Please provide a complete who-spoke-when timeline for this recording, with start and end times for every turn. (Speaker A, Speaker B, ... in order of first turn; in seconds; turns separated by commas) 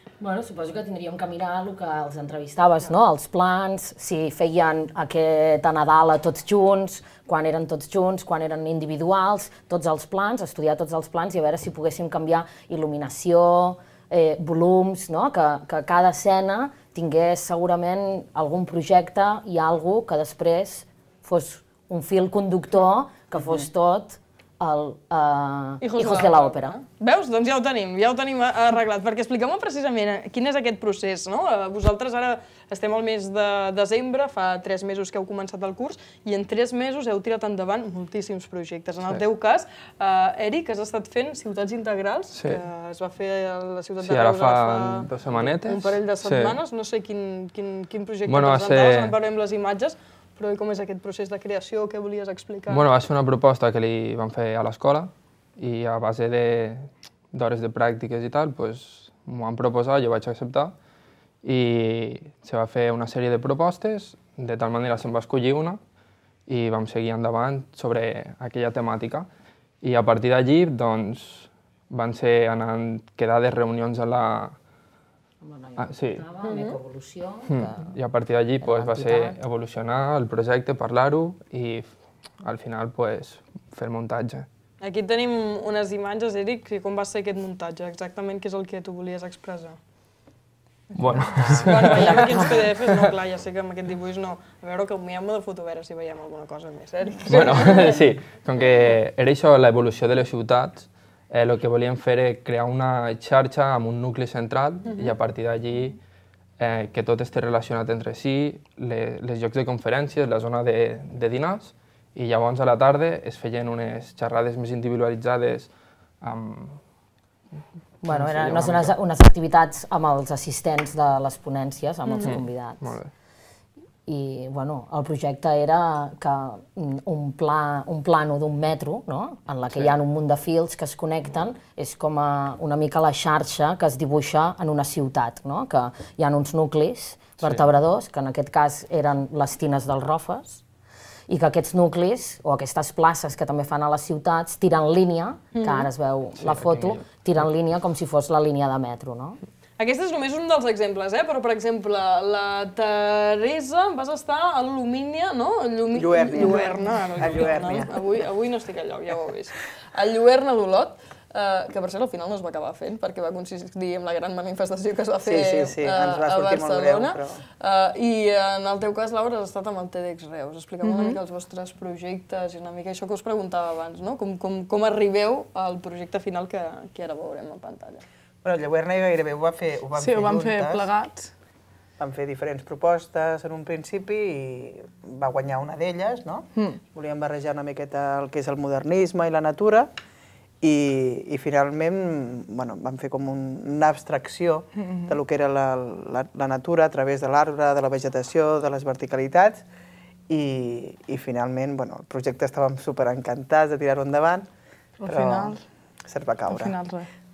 Speaker A: 0.2-26.8, Speaker B: 25.8-52.9, Speaker C: 42.3-42.6, Speaker C: 44.0-46.6, Speaker C: 48.3-49.2, Speaker C: 52.7-60.7, Speaker C: 61.4-65.8, Speaker C: 66.5-69.3, Speaker C: 69.8-74.6, Speaker A: 75.4-78.0, Speaker C: 75.8-76.2, Speaker B: 76.4-76.8, Speaker C: 77.5-84.5, Speaker A: 78.6-79.4, Speaker B: 84.8-89.8, Speaker C: 91.0-93.1, Speaker B: 91.4-98.0, Speaker C: 97.3-106.0, Speaker C: 106.6-116.8, Speaker A: 118.0-123.0, Speaker C: 118.1-119.0, Speaker C: 122.1-123.1, Speaker A: 124.1-140.6, Speaker A: 141.3-149.4, Speaker B: 145.6-145.9, Speaker C: 146.4-147.0, Speaker B: 149.8-178.0, Speaker D: 155.9-158.0, Speaker D: 165.2-167.4, Speaker E: 170.8-171.2, Speaker D: 178.4-180.9, Speaker E: 180.0-181.3, Speaker D: 182.0-189.9, Speaker D: 190.6-199.6, Speaker E: 194.8-195.2, Speaker D: 200.3-204.5, Speaker E: 205.0-205.6, Speaker D: 205.1-206.8, Speaker E: 206.5-207.1